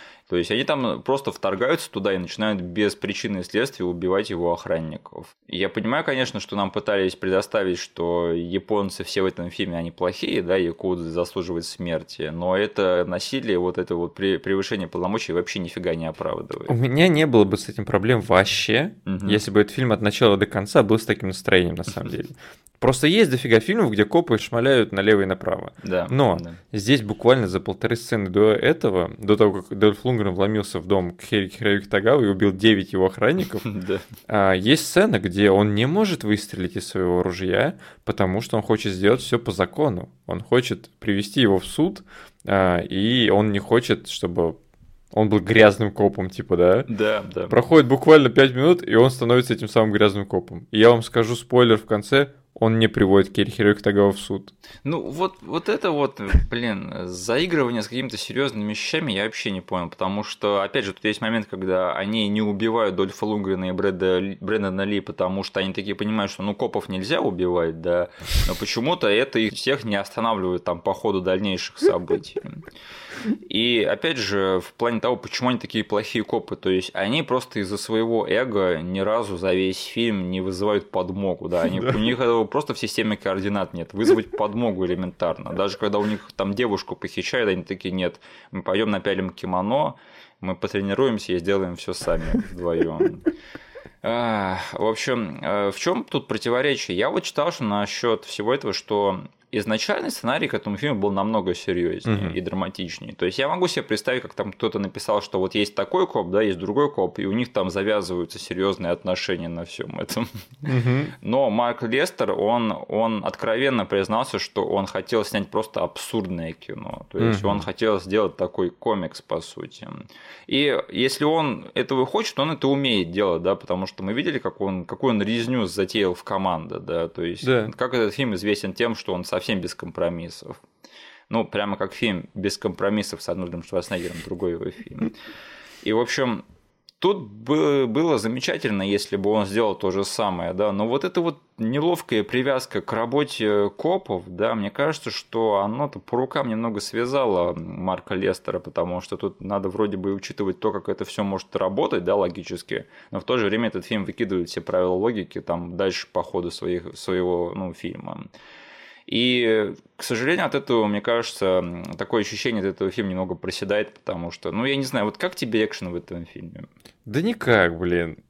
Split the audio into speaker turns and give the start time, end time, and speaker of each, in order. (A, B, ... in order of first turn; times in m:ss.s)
0:00.3-0:16.7 A
0:16.7-0:33.6 B
0:19.0-0:19.4 A
0:25.8-0:26.6 A
0:33.6-0:34.0 A
0:34.3-0:44.6 B
0:45.1-0:46.9 B
0:46.9-0:47.6 A
0:47.5-0:54.5 B
0:54.8-1:12.6 A
1:13.4-1:33.2 A
1:34.0-1:50.7 A
1:42.1-1:42.4 B
1:50.6-1:51.1 B
1:51.2-2:10.6 A
1:57.2-1:57.6 B
2:07.4-2:07.7 B
2:11.3-2:15.1 A
2:15.8-2:16.4 A
2:17.0-2:38.3 A
2:39.1-2:46.7 A
2:47.0-2:48.2 B